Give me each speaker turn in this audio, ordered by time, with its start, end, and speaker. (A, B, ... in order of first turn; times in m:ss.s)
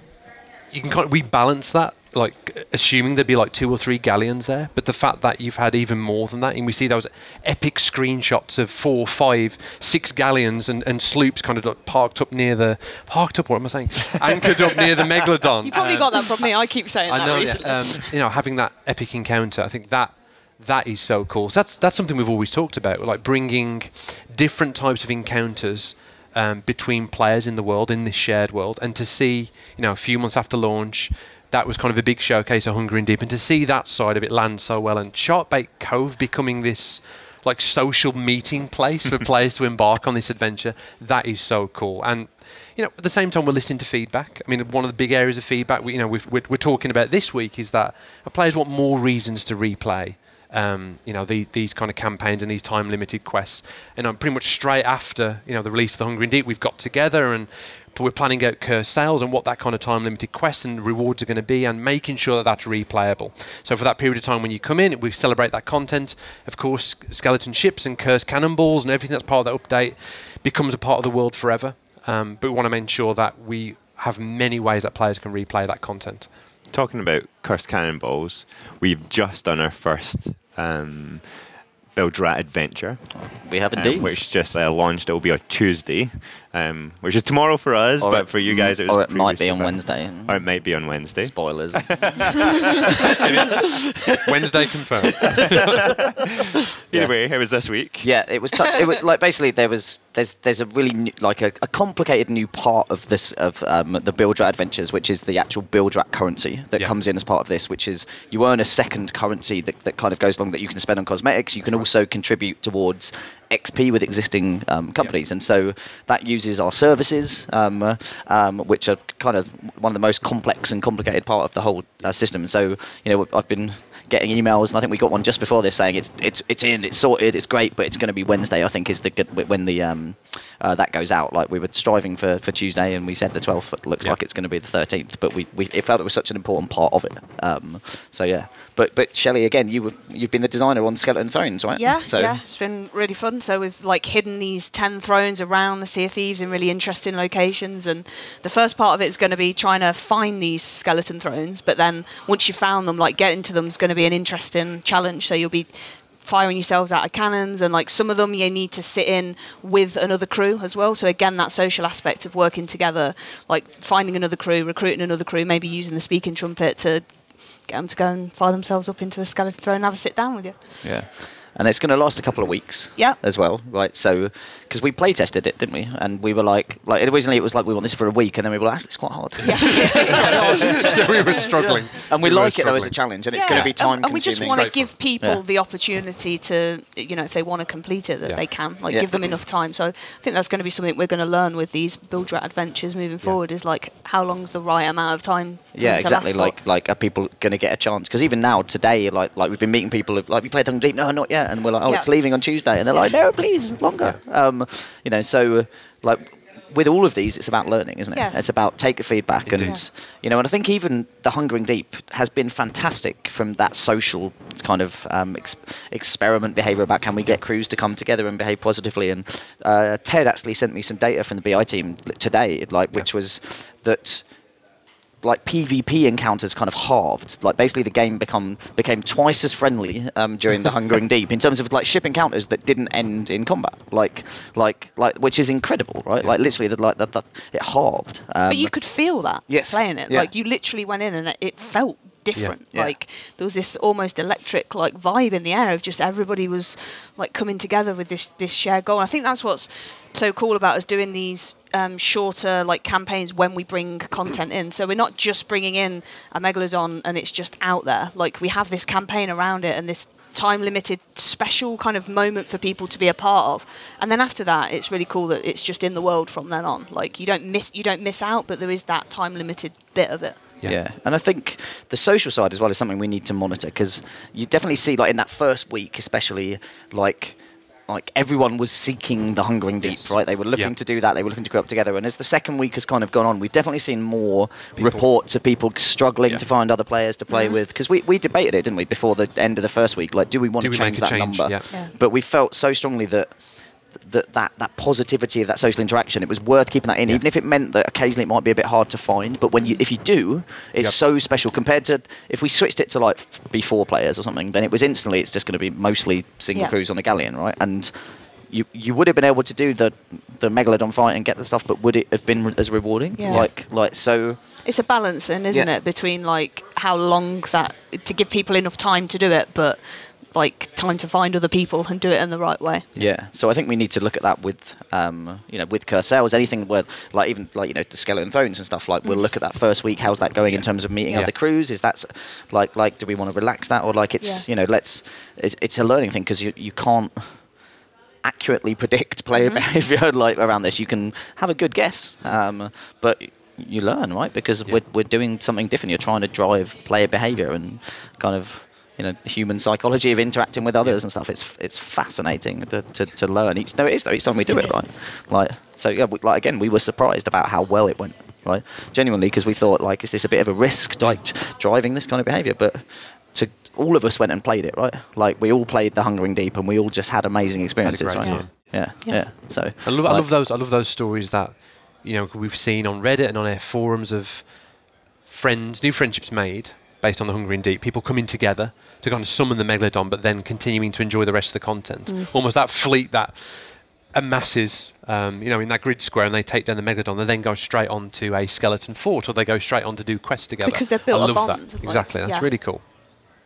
0:00.7-0:16.5 A
0:15.6-0:18.1 B
0:17.1-1:16.3 A
1:16.7-1:33.2 C
1:23.2-1:24.2 D
1:28.0-1:32.5 D
1:33.2-1:35.8 A
1:36.9-1:38.1 C
1:38.0-2:22.4 D
2:21.8-2:50.7 B
2:50.8-3:05.4 D
2:59.4-3:01.0 B
2:59.6-3:03.0 A
3:03.3-3:16.6 B
3:03.5-3:03.8 A
3:04.4-3:04.9 A
3:08.9-3:09.4 D
3:15.8-3:44.3 D
3:28.1-3:28.4 B
3:29.4-3:29.8 A
3:45.2-3:58.7 D
3:58.5-4:30.5 B
3:59.5-4:00.3 D
4:30.6-5:14.4 D
4:39.8-4:40.7 A
4:44.8-4:45.1 A
4:47.3-4:47.6 B
4:50.6-4:51.7 A
5:13.2-5:13.5 B
5:14.6-5:22.9 B
5:23.0-5:37.7 D
5:38.2-6:10.3 D
5:39.4-5:39.6 B
5:54.5-5:54.8 B
6:07.8-6:09.0 A
6:08.2-6:08.4 B
6:09.8-6:32.8 A
6:30.6-6:32.5 B